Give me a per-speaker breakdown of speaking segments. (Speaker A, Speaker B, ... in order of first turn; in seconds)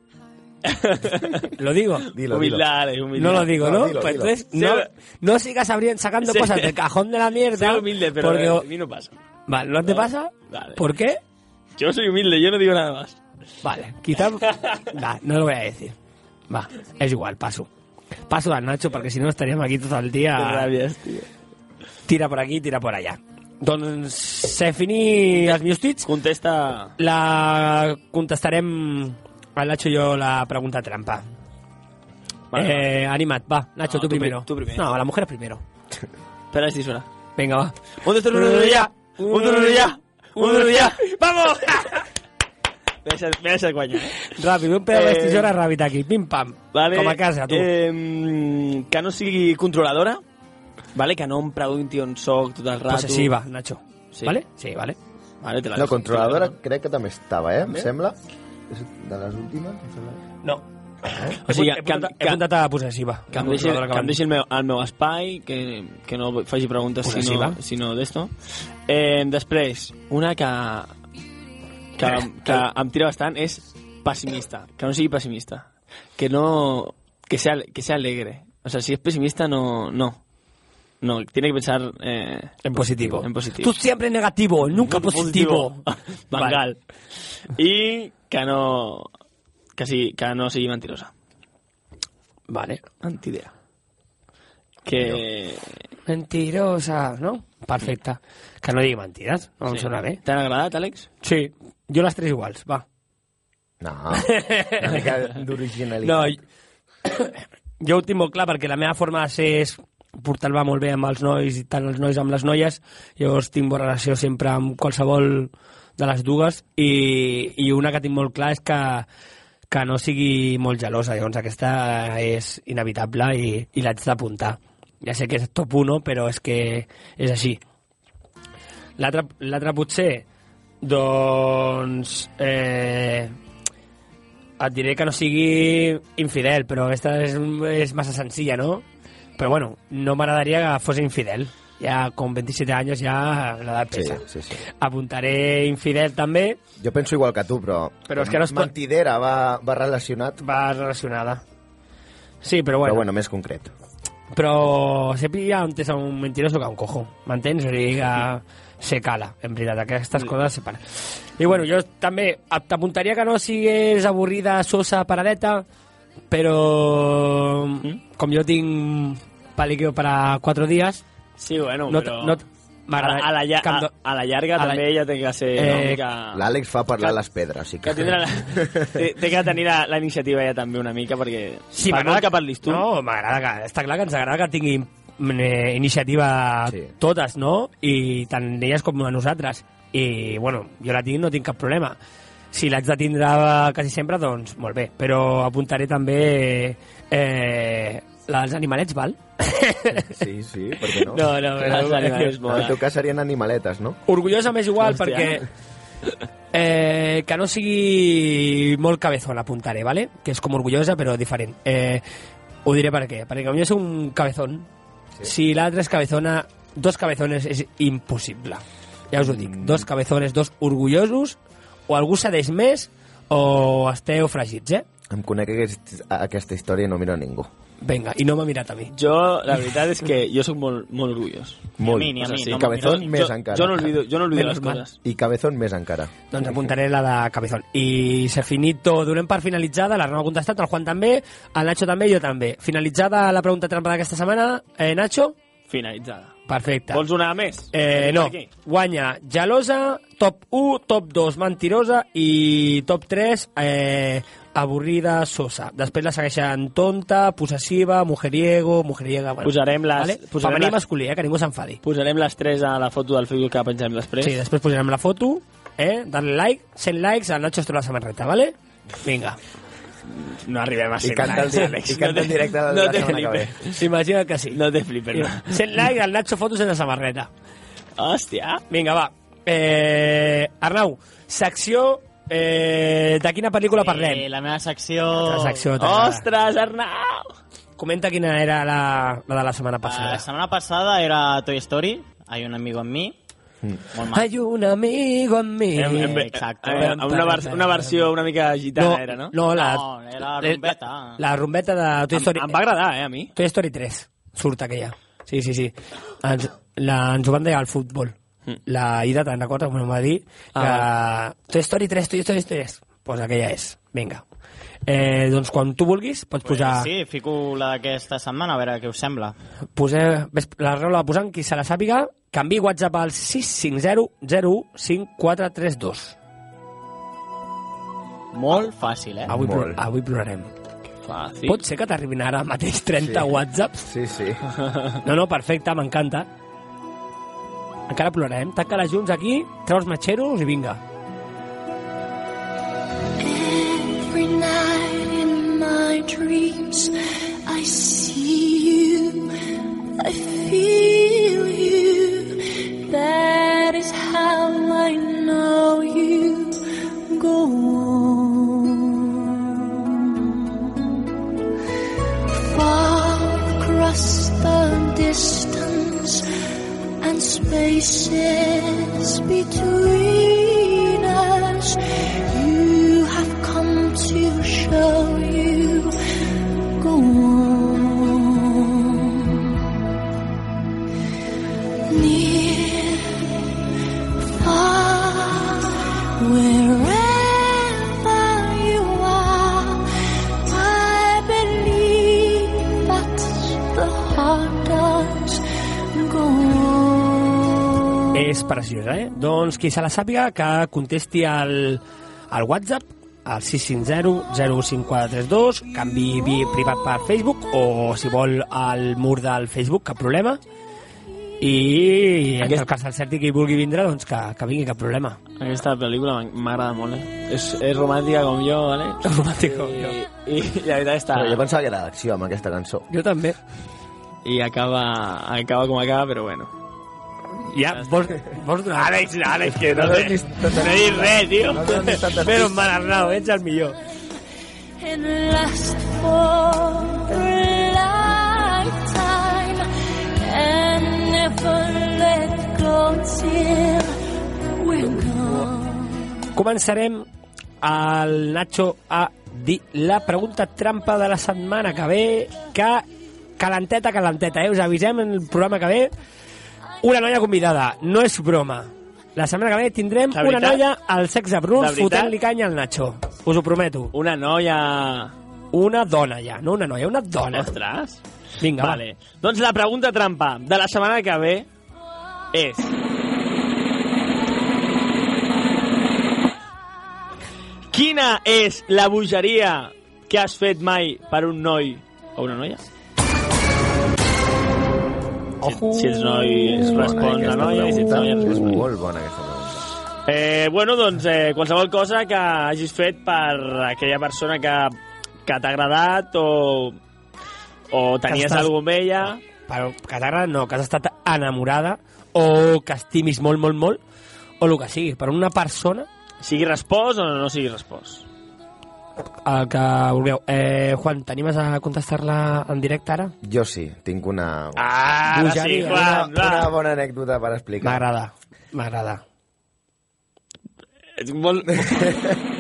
Speaker A: 0.7-1.5, 2.3-3.5, 4.5-4.9, 6.2-6.7, 7.5-9.1, 9.9-10.8, 11.8-13.2, 20.4-21.3, 26.1-26.9, 32.5-32.9, 33.9-34.8, 36.5-37.1, 38.0-41.0, 43.0-44.3, 44.9-45.5, 46.7-50.2, 51.0-53.3, 55.4-56.5, 61.5-62.4, 63.3-68.3, 68.9-70.9, 72.0-80.2, 81.0-83.8, 84.7-86.8, 87.6-89.1, 89.8-91.1, 93.0-93.5, 94.8-95.7, 99.7-101.1, 171.4-172.4, 173.0-176.4, 177.8-182.8, 201.5-202.8, 204.8-205.4, 228.9-235.0, 245.7-246.3, 246.9-248.5, 259.4-260.8, 261.8-264.4, 270.2-273.8, 274.5-275.6, 278.0-278.6, 285.8-287.3, 295.8-299.4, 302.1-303.3, 310.6-310.9, 331.0-331.6, 415.4-421.4, 424.2-426.5, 429.1-431.8, 460.1-460.6, 461.6-462.1, 463.9-465.1, 467.3-468.0, 468.6-471.5, 472.3-472.7, 477.7-482.6, 485.4-488.6, 490.1-494.8, 495.3-496.8, 497.7-499.2, 506.2-508.1, 514.7-516.5, 521.0-521.8
Speaker B: 1.6-2.1, 3.2-8.7, 9.5-11.2, 13.6-15.9, 16.5-17.7, 18.3-20.7, 22.1-26.1, 27.0-31.2, 32.5-35.6, 37.4-37.8, 38.3-42.0, 44.3-47.7, 52.9-55.0, 60.4-64.2, 67.0-67.6, 82.7-85.8, 86.3-86.6, 92.5-92.8, 96.1-100.2, 101.2-102.8, 104.2-105.0, 106.0-106.4, 107.1-119.1, 119.7-127.6, 129.0-130.2, 130.8-133.3, 134.6-138.8, 139.4-144.2, 144.8-146.6, 148.1-148.7, 150.4-151.4, 152.4-153.1, 154.3-165.7, 166.3-171.0, 171.9-173.9, 174.6-174.8, 175.6-176.0, 181.7-192.0, 192.5-200.2, 201.1-202.4, 204.1-205.4, 206.5-212.0, 212.7-214.7, 215.2-221.4, 221.9-224.8, 227.8-228.9, 234.3-234.8, 236.3-245.4, 246.5-247.0, 247.7-261.8, 264.2-269.4, 273.7-274.6, 275.1-277.3, 278.7-284.3, 285.2-286.3, 287.8-290.2, 294.1-298.1, 298.8-299.9, 300.4-302.6, 303.4-308.2, 308.7-314.2, 314.9-316.9, 319.8-326.2, 329.3-330.5, 331.5-333.9, 335.1-336.3, 337.9-340.8, 398.1-410.4, 411.4-415.2, 419.1-420.0, 422.9-423.4, 427.5-430.1, 431.8-433.8, 446.3-447.1, 447.6-452.9, 453.4-455.9, 456.8-463.9, 465.5-467.5, 468.4-468.8, 485.4-486.9, 498.1-498.5, 499.5-503.8, 504.4-505.9, 509.2-513.1, 514.6-515.8, 517.6-519.0
Speaker C: 2.1-2.6, 3.5-4.3, 55.8-58.2, 58.7-60.2, 94.9-95.2, 103.8-106.3, 143.9-144.6, 146.8-150.4, 152.8-153.7, 176.3-179.0, 199.9-201.3, 202.5-204.0, 219.2-219.9, 225.1-227.5, 231.8-233.9, 235.0-236.5, 271.0-273.5, 329.3-329.8, 333.0-334.4, 421.1-422.9, 429.7-432.7, 486.5-489.7, 513.2-514.6, 515.2-517.9, 521.5-522.2
Speaker D: 231.8-233.1, 283.8-285.7, 289.9-293.2, 293.9-294.3, 296.0-297.0, 299.6-301.2, 316.4-319.4, 328.3-329.3
Speaker E: 343.2-349.4, 350.0-360.8, 362.3-366.3, 367.0-379.6, 381.9-383.4, 384.2-389.9, 390.4-397.5, 434.8-444.0, 444.6-446.1